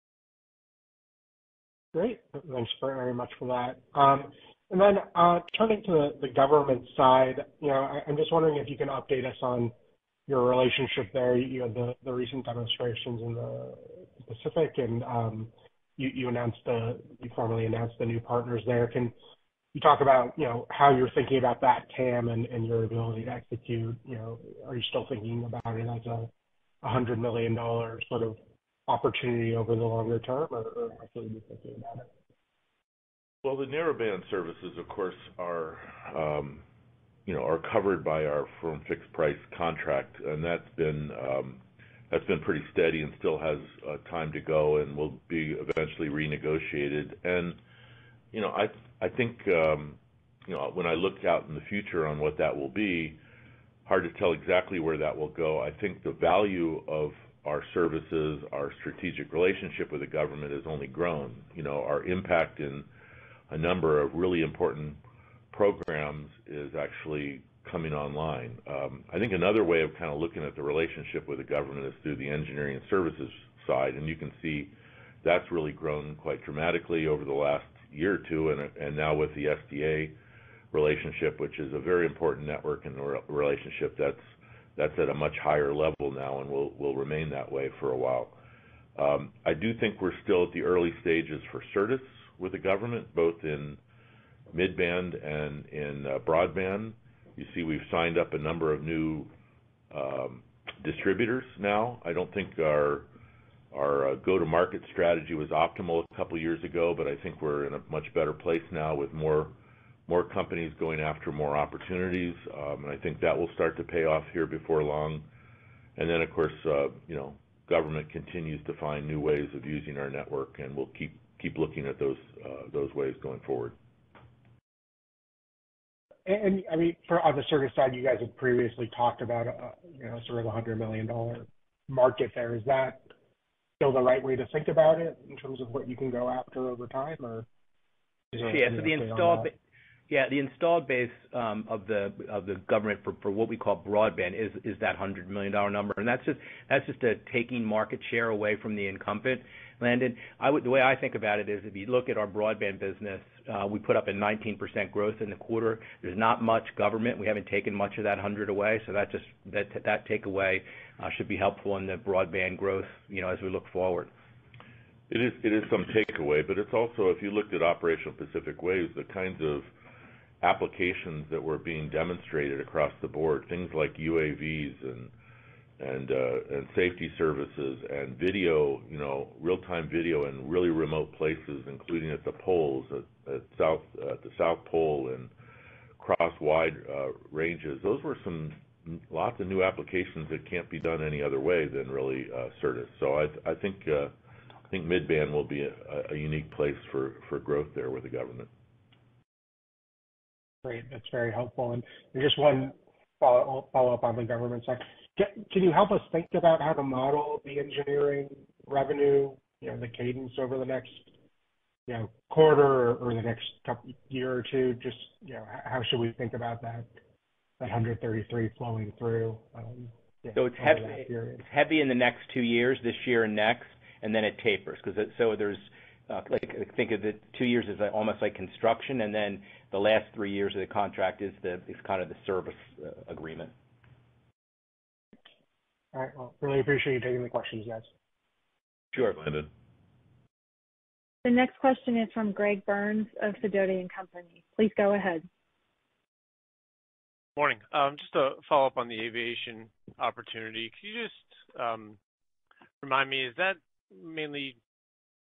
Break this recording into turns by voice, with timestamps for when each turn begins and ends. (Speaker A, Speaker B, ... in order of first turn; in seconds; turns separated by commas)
Speaker A: 1.9-9.7, Speaker A: 10.3-19.1, Speaker A: 19.7-26.3, Speaker A: 26.8-32.1, Speaker B: 33.4-36.6, Speaker B: 37.3-47.6, Speaker B: 48.3-53.2, Speaker B: 53.9-62.9, Speaker B: 63.5-80.2, Speaker B: 80.7-88.4, Speaker B: 89.0-93.8, Speaker B: 94.5-99.3, Speaker B: 99.9-103.1, Speaker B: 103.7-109.5, Speaker B: 110.1-115.3, Speaker B: 116.0-123.8, Speaker A: 126.3-133.0, Speaker A: 133.8-137.5, Speaker A: 138.3-139.5, Speaker C: 138.4-139.6, Speaker C: 140.1-164.1, Speaker B: 165.1-169.7, Speaker B: 170.4-175.1, Speaker B: 175.8-185.3, Speaker B: 186.0-194.1, Speaker B: 194.7-198.5, Speaker A: 200.6-211.1, Speaker A: 211.9-216.9, Speaker A: 217.6-221.4, Speaker C: 220.4-233.5, Speaker A: 235.9-237.9, Speaker B: 238.9-239.5, Speaker D: 241.2-245.3, Speaker E: 247.4-252.0, Speaker E: 252.8-254.6